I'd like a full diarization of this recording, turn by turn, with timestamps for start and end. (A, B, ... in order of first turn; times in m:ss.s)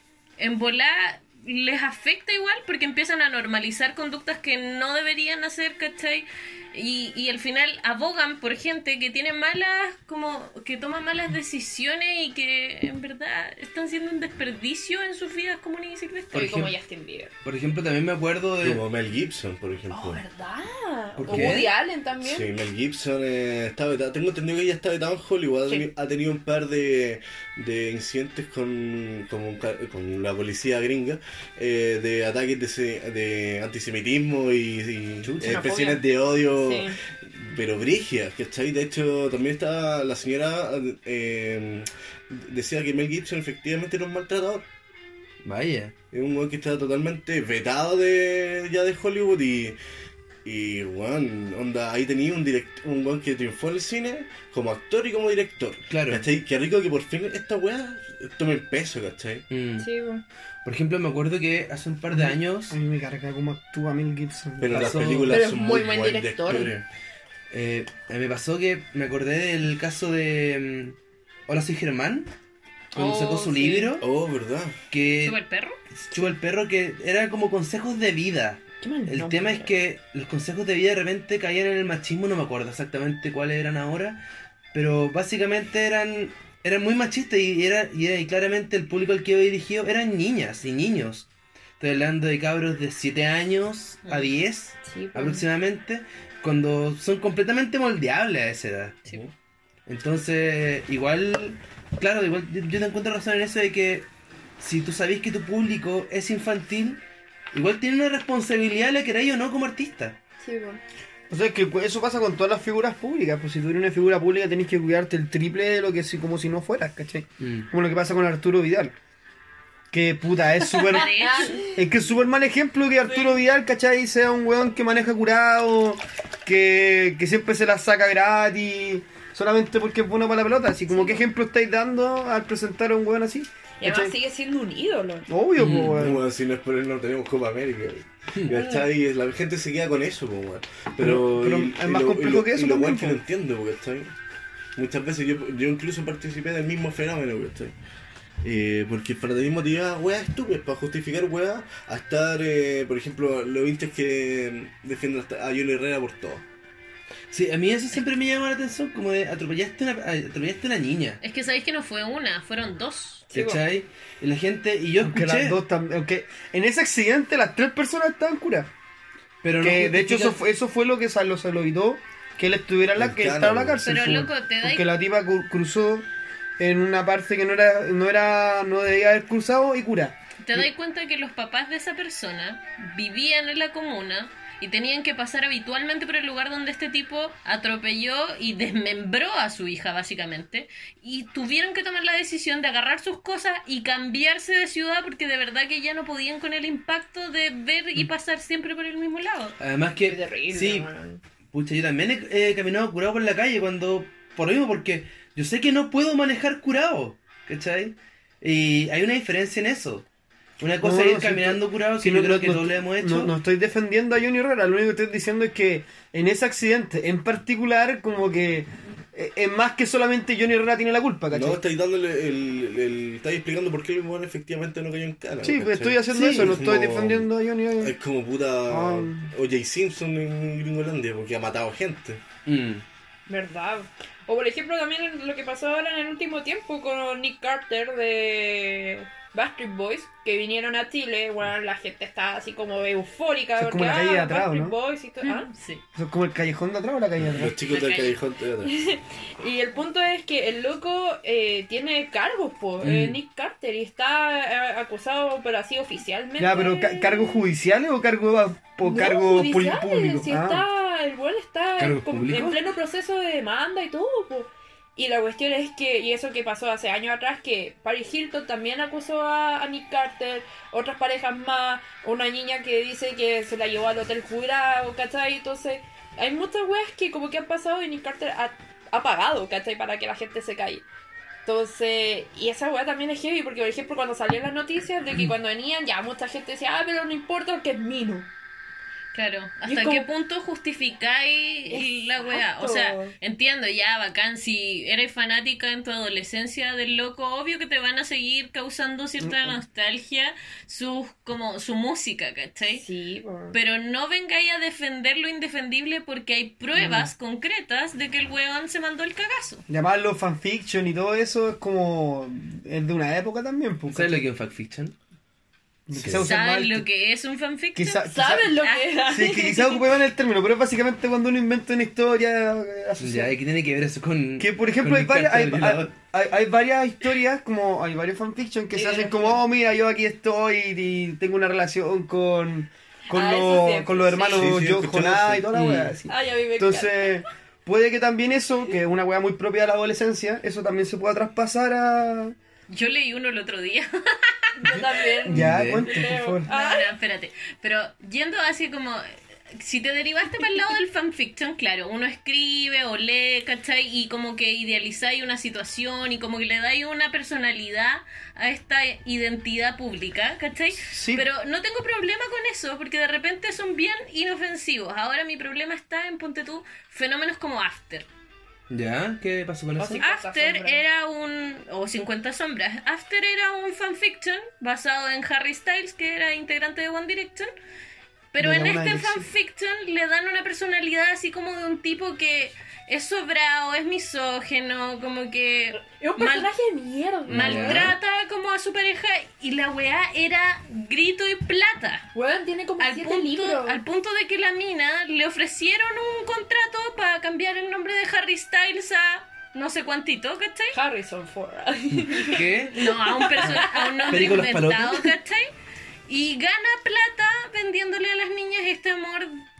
0:00.4-0:16.5 A
0:16.3-0:16.7 B
0:16.3-0:17.3 C
0:17.4-0:18.8 B
0:18.6-0:20.2 D
0:19.9-0:22.5 C
0:21.2-0:21.7 B
0:21.3-0:21.6 D
0:22.2-0:44.7 D
0:35.2-0:35.6 B
0:35.4-0:37.0 C
0:45.4-0:45.9 B
0:46.1-0:49.8 D
0:50.4-0:59.4 D
0:55.9-0:56.2 B
0:59.5-0:59.9 B
0:59.8-1:00.2 C
1:00.6-1:02.8 B
1:02.1-1:05.1 E
1:04.6-1:06.8 D
1:04.7-1:05.4 B
1:05.3-1:06.7 C
1:07.5-1:11.0 B
1:11.5-1:12.3 B
1:12.9-1:14.0 B
1:12.9-1:14.0 C
1:14.0-1:14.8 D
1:14.9-1:15.4 B
1:15.2-1:15.8 A
1:16.1-1:24.2 B
1:18.8-1:19.7 C
1:24.7-1:31.3 B
1:31.8-1:39.0 B
1:34.0-1:34.3 A
1:34.8-1:35.4 C
1:39.8-1:44.1 B
1:44.6-1:47.0 B
1:47.5-1:50.2 B
1:50.4-1:50.8 C
1:51.3-1:58.9 E
1:57.4-1:57.7 B
1:59.9-2:14.1 E
2:00.9-2:01.7 A
2:00.9-2:01.8 C
2:03.1-2:03.4 C
2:10.9-2:11.2 C
2:13.8-2:15.3 C
2:15.3-2:16.2 E
2:15.6-2:16.0 B
2:15.6-2:24.1 D
2:18.5-2:18.9 C
2:21.0-2:23.2 E
2:24.8-2:27.7 D
2:28.4-2:36.4 D
2:37.3-2:41.2 B
2:41.2-2:43.3 A
2:43.3-2:43.6 C
2:43.3-2:45.6 B
2:45.0-2:48.7 E
2:49.4-2:50.4 B
2:49.6-2:56.0 E
2:53.0-2:54.2 D
2:53.8-2:54.9 A
2:56.6-3:00.7 E
3:00.4-3:19.6 A
3:19.6-3:20.9 B
3:20.0-3:21.2 C
3:21.5-3:30.0 B
3:30.6-3:33.3 B
3:30.8-3:41.6 E
3:41.3-3:47.3 D
3:45.4-3:47.9 E
3:46.1-3:46.6 B
3:47.8-3:52.2 D
3:48.7-3:49.3 E
3:52.4-3:52.8 B
3:53.3-4:05.5 C
4:03.6-4:04.8 E
4:05.2-4:05.8 A
4:05.9-4:07.6 E
4:07.2-4:08.7 D
4:07.6-4:08.2 A
4:08.6-4:17.4 C
4:12.8-4:13.2 B
4:16.4-4:20.6 E
4:18.8-4:40.8 C
4:21.8-4:22.6 B
4:41.4-4:48.3 C
4:49.1-5:02.8 A
4:49.6-4:50.1 C
4:51.7-4:53.1 C
4:59.2-4:59.6 E
5:02.7-5:03.6 C
5:03.5-5:09.6 A
5:06.7-5:07.1 E
5:09.7-5:14.2 E
5:13.9-5:14.9 B
5:15.9-5:16.9 E
5:16.1-5:18.9 A
5:17.7-5:18.5 E
5:18.1-5:19.8 C
5:19.1-5:23.4 E
5:23.0-5:25.9 B
5:24.4-5:42.3 E
5:28.7-5:29.4 C
5:33.1-5:34.5 C
5:34.3-5:35.6 D
5:35.5-5:35.9 B
5:36.1-5:37.2 C
5:42.7-5:44.8 A
5:44.6-5:46.9 C
5:44.7-5:46.5 E
5:45.3-5:45.9 B
5:46.4-6:08.1 A
6:00.8-6:01.2 E
6:08.7-6:10.0 B
6:09.8-6:10.8 C
6:10.0-6:17.5 A
6:18.3-6:26.5 A
6:18.4-6:19.3 E
6:25.9-6:27.9 C
6:27.3-6:28.0 B
6:27.3-6:32.1 A
6:32.1-6:33.8 C
6:32.8-6:40.8 A
6:40.7-6:44.4 C
6:42.2-6:42.8 B
6:42.7-6:45.5 A
6:43.4-6:45.1 B
6:46.1-6:49.4 A